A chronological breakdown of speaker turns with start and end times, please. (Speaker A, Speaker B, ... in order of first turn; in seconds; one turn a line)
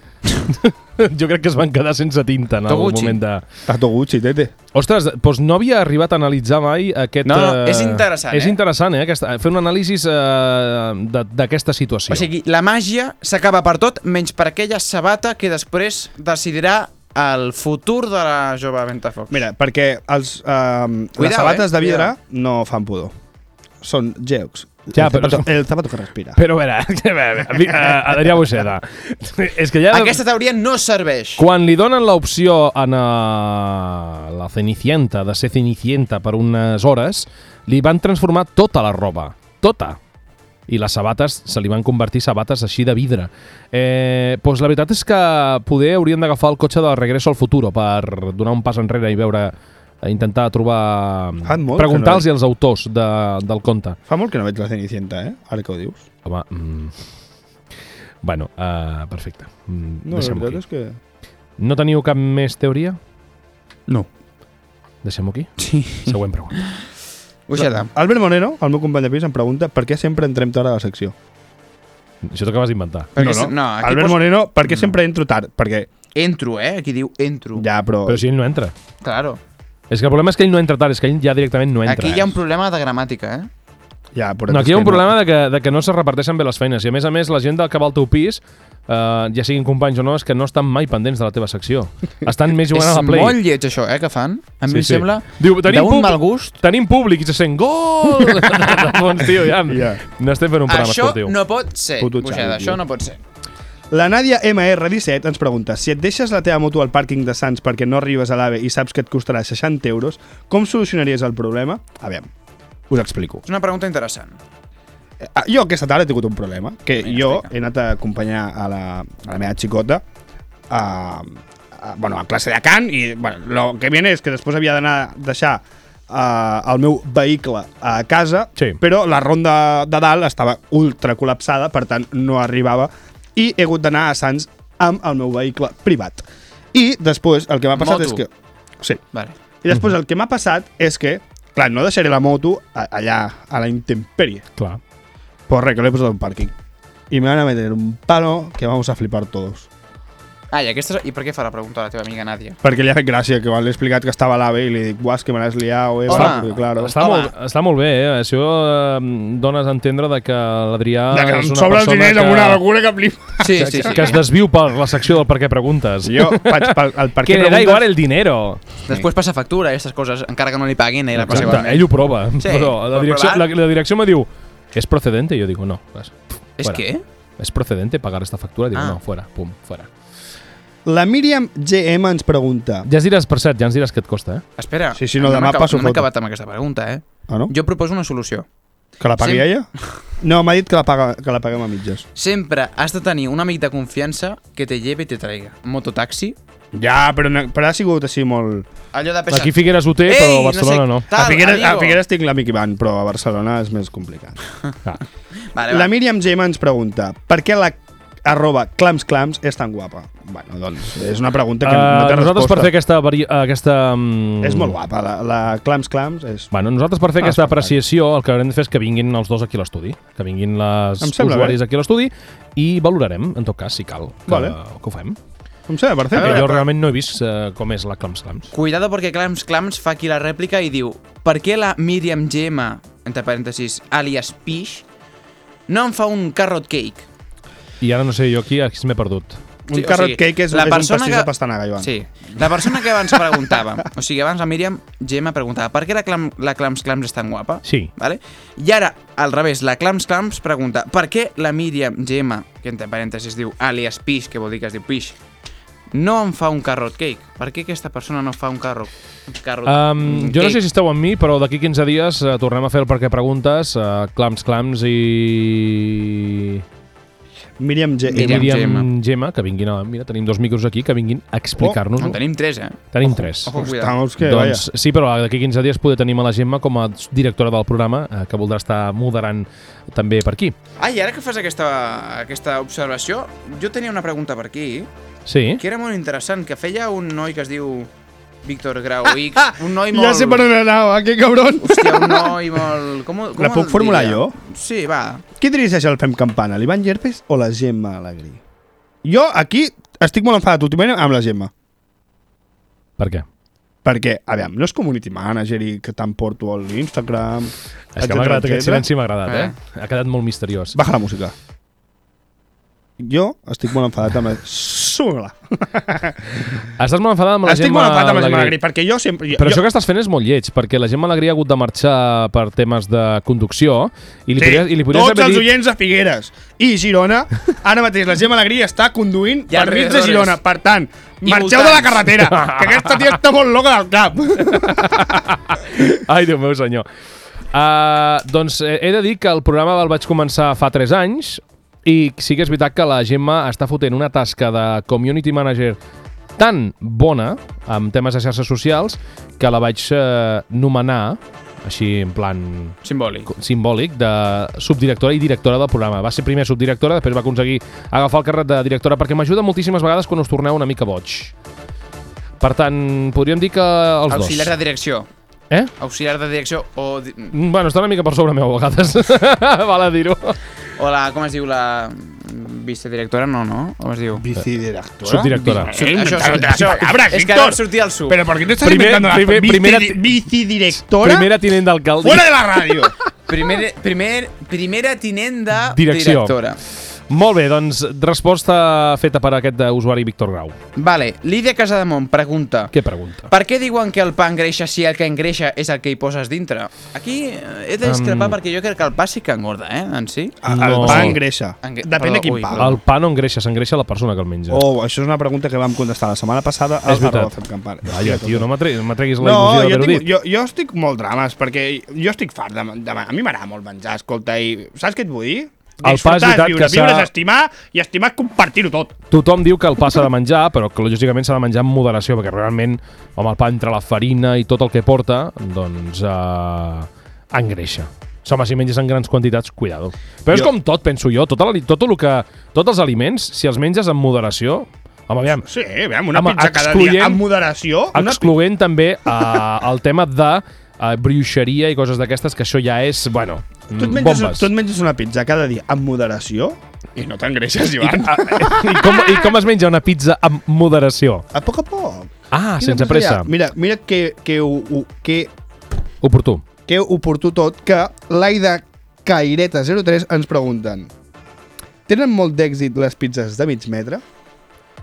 Speaker A: 0.5-3.4
Speaker B: 2.7-3.2
Speaker C: 3.6-4.5
Speaker A: 4.7-12.3
Speaker B: 7.2-8.6
Speaker B: 12.1-19.4
Speaker C: 19.3-23.1
Speaker B: 21.2-22.1
Speaker C: 23.8-26.4
Speaker A: 24.9-25.5
Speaker A: 26.3-30.2
Speaker B: 29.9-31.4
Speaker A: 31.4-40.0
Speaker A: 40.7-54.0
Speaker C: 51.4-52.3
Speaker C: 54.1-56.0
Speaker A: 56.2-57.0
Speaker A: 58.2-60.6
Speaker C: 60.0-61.0
Speaker A: 61.6-63.0
Speaker A: 65.0-66.6
Speaker B: 65.6-66.8
Speaker B: 67.5-67.9
Speaker C: 67.5-71.1
Speaker A: 72.2-73.1
Speaker B: 73.1-74.9
Speaker C: 73.2-75.9
Speaker B: 76.1-77.6
Speaker C: 77.5-78.2
Speaker A: 78.0-78.7
Speaker B: 79.0-79.4
Speaker A: 79.9-82.3
Speaker B: 81.8-83.5
Speaker C: 84.1-85.1
Speaker A: 84.5-93.4
Speaker B: 92.7-96.6
Speaker A: 94.7-101.3
Speaker C: 99.7-100.0
Speaker B: 100.7-103.2
Speaker C: 102.0-102.8
Speaker C: 103.9-112.3
Speaker C: 112.9-113.4
Speaker B: 113.5-114.4
Speaker C: 115.2-120.0
Speaker B: 117.0-117.5
Speaker C: 120.7-138.3
Speaker B: 137.8-138.2
Speaker C: 139.6-144.5
Speaker C: 145.5-146.5
Speaker C: 147.1-149.7
Speaker B: 150.5-152.6
Speaker C: 152.6-157.0
Speaker B: 156.1-157.3
Speaker A: 156.1-162.6
Speaker C: 161.1-164.2
Speaker B: 163.4-164.2
Speaker A: 163.6-168.6
Speaker C: 166.0-167.9
Speaker B: 168.9-173.5
Speaker A: 171.1-176.8
Speaker B: 176.6-177.0
Speaker A: 177.4-179.9
Speaker C: 180.8-182.9
Speaker A: 182.8-184.4
Speaker B: 184.6-188.4
Speaker C: 184.9-186.1
Speaker C: 189.0-189.7
Speaker B: 189.2-189.4
Speaker C: 190.2-192.0
Speaker B: 192.2-196.3
Speaker C: 196.7-198.7
Speaker B: 198.9-202.0
Speaker A: 199.3-201.1
Speaker C: 201.1-204.4
Speaker B: 205.5-205.9
Speaker C: 205.7-212.7
Speaker A: 211.6-214.7
Speaker C: 214.4-216.5
Speaker A: 216.5-225.2
Speaker C: 217.2-217.8
Speaker C: 221.0-221.6
Speaker C: 224.3-224.6
Speaker C: 225.7-226.6
Speaker B: 226.1-226.7
Speaker A: 226.1-228.5
Speaker B: 228.5-234.8
Speaker B: 235.7-237.1
Speaker A: 237.8-239.4
Speaker C: 239.7-243.6
Speaker B: 239.7-255.2
Speaker A: 247.6-247.9
Speaker B: 255.9-260.6
Speaker A: 259.6-266.6
Speaker C: 267.6-268.5
Speaker B: 268.1-268.9
Speaker A: 268.1-272.2
Speaker B: 272.0-272.9
Speaker A: 272.9-273.6
Speaker C: 273.0-274.6
Speaker B: 273.4-273.9
Speaker A: 274.2-280.5
Speaker B: 280.8-284.9
Speaker A: 285.2-285.6
Speaker B: 285.6-287.9
Speaker B: 288.4-290.4
Speaker C: 289.4-292.6
Speaker B: 291.6-295.2
Speaker C: 293.4-294.3
Speaker C: 295.4-298.4
Speaker C: 299.0-301.5
Speaker A: 303.0-303.2
Speaker C: 303.8-308.8
Speaker A: 307.9-310.8
Speaker B: 309.2-309.5
Speaker C: 310.7-311.3
Speaker C: 313.0-316.5
Speaker A: 316.8-318.6
Speaker C: 317.4-319.6
Speaker A: 319.3-325.5
Speaker C: 324.4-335.2
Speaker B: 329.5-330.4
Speaker B: 331.2-332.1
Speaker A: 332.3-333.0
Speaker A: 334.4-336.9
Speaker A: 337.5-345.8
Speaker A: 346.4-352.8
Speaker B: 352.8-353.3
Speaker A: 353.3-361.3
Speaker A: 362.4-364.5
Speaker B: 364.1-365.1
Speaker B: 365.8-367.3
Speaker A: 367.3-370.4
Speaker B: 370.8-374.2
Speaker C: 374.1-381.3
Speaker A: 375.0-375.7
Speaker B: 375.7-378.2
Speaker A: 378.6-380.1
Speaker A: 380.8-382.3
Speaker C: 382.0-382.9
Speaker B: 383.3-386.6
Speaker A: 385.6-386.3
Speaker A: 387.1-390.6
Speaker B: 390.8-392.7
Speaker A: 392.7-393.3
Speaker B: 393.3-402.8
Speaker A: 397.8-398.4
Speaker C: 400.4-402.8
Speaker A: 400.5-401.2
Speaker A: 402.6-404.6
Speaker C: 404.5-408.5
Speaker A: 406.9-407.3
Speaker A: 407.8-410.1
Speaker C: 409.2-418.9
Speaker A: 415.8-417.1
Speaker A: 419.1-435.5
Speaker C: 435.4-438.3
Speaker A: 436.1-437.2
Speaker A: 437.9-444.5
Speaker C: 443.7-449.3
Speaker A: 447.8-451.2
Speaker C: 451.3-455.3
Speaker A: 452.3-453.3
Speaker A: 456.0-456.4
Speaker C: 456.7-460.9
Speaker C: 461.9-464.0